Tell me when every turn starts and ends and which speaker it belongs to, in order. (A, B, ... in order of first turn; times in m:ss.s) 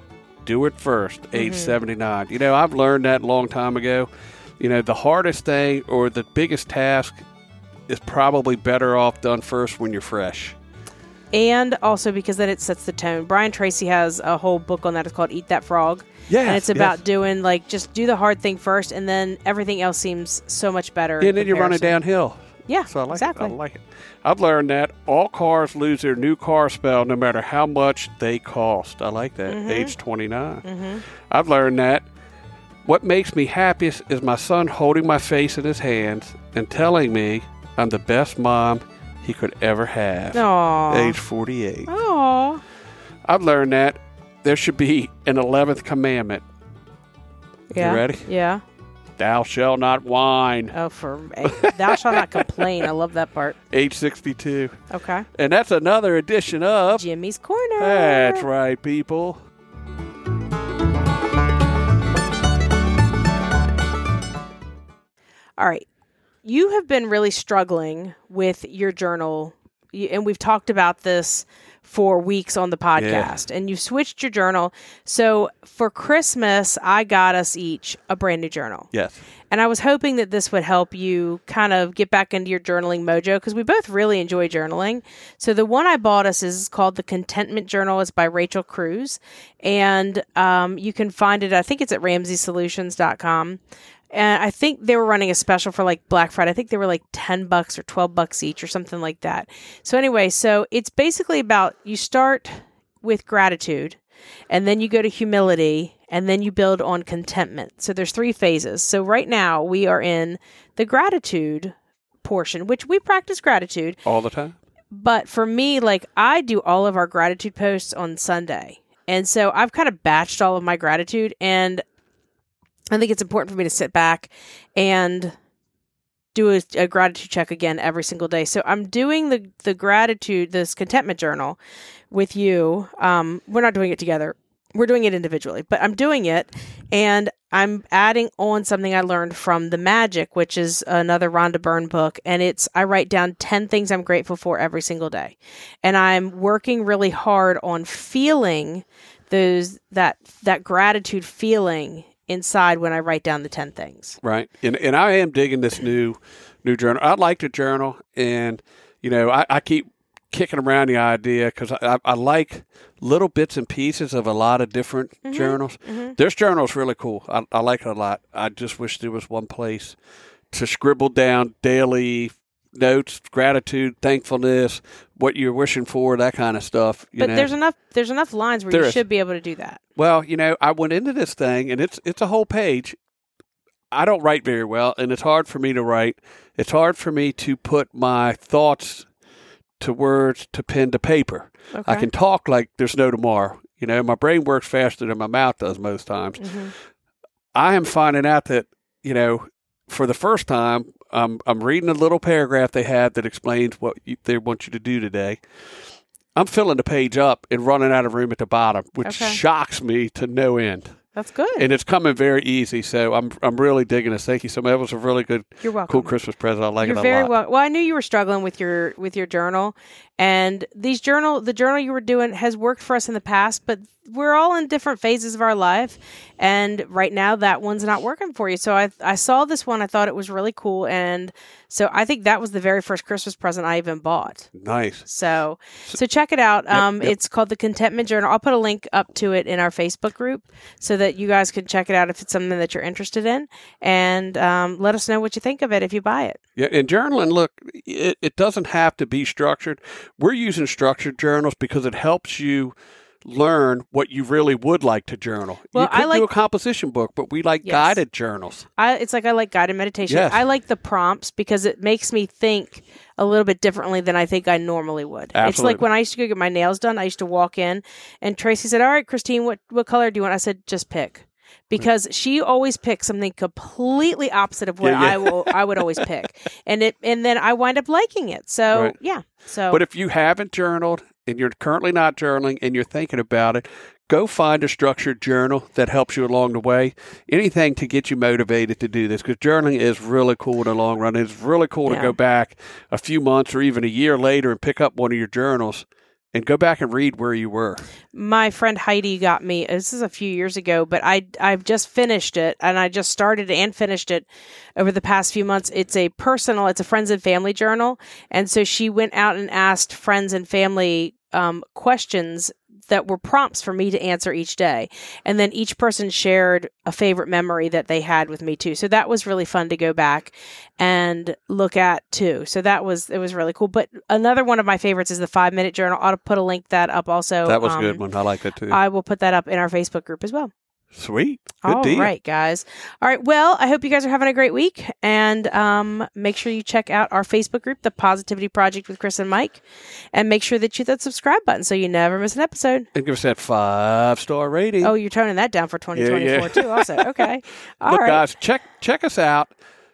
0:00.4-0:07.2 A
0:01.3-0:01.8 B
0:07.9-0:10.6 A
0:11.3-0:22.0 B
0:16.3-0:17.0 A
0:21.2-0:30.6 A
0:22.7-0:23.6 B
0:29.5-0:30.0 B
0:30.6-0:31.0 B
0:31.3-0:32.0 A
0:32.9-0:41.9 A
0:40.3-0:41.2 B
0:41.9-0:42.6 B
0:43.3-0:46.4 A
0:47.7-0:48.6 B
0:47.8-0:48.3 A
0:49.2-0:50.8 A
0:50.7-0:53.6 B
0:51.5-0:52.6 A
0:53.7-0:54.8 A
0:54.9-0:55.3 B
0:55.3-0:57.0 A
0:56.9-0:58.5 B
0:57.8-0:59.4 A
1:05.6-1:05.9 B
1:06.4-1:18.9 B
1:13.0-1:13.3 A
1:18.9-1:19.2 A
1:19.5-1:33.6 B
1:34.1-1:44.0 B
1:44.5-1:54.0 B
1:54.0-1:54.6 A
1:54.9-2:01.8 B
2:02.9-2:05.4 B
2:06.3-2:11.6 B
2:12.1-2:34.2 B
2:34.2-2:50.0 A
2:45.2-2:46.2 B
2:50.5-2:57.5 A
2:57.2-2:59.8 B
2:58.7-2:59.0 A
3:00.0-3:03.0 A
3:03.9-3:09.1 A
3:09.8-3:16.6 A
3:11.7-3:12.1 B
3:16.4-3:16.7 B
3:17.6-3:25.4 A
3:26.4-3:30.9 A
3:29.0-3:29.4 B
3:31.1-3:31.7 B
3:31.6-3:37.3 A
3:35.6-3:36.2 B
3:36.8-3:54.5 B
3:54.6-3:55.1 A
3:55.0-4:06.4 B
3:56.7-3:57.1 A
4:06.6-4:18.7 A
4:15.7-4:16.3 B
4:17.6-4:18.0 B
4:18.8-4:39.8 B
4:20.1-4:20.5 A
4:25.4-4:25.8 A
4:34.8-4:36.0 A
4:39.7-4:57.8 A
4:51.9-4:52.2 B
4:58.1-5:28.0 B
5:27.4-5:28.8 A
5:28.7-5:30.5 B
5:30.9-5:32.1 A
5:31.6-5:42.9 B
5:42.9-5:44.9 A
5:44.8-5:48.3 B
5:45.9-5:47.3 A
5:47.8-5:49.5 A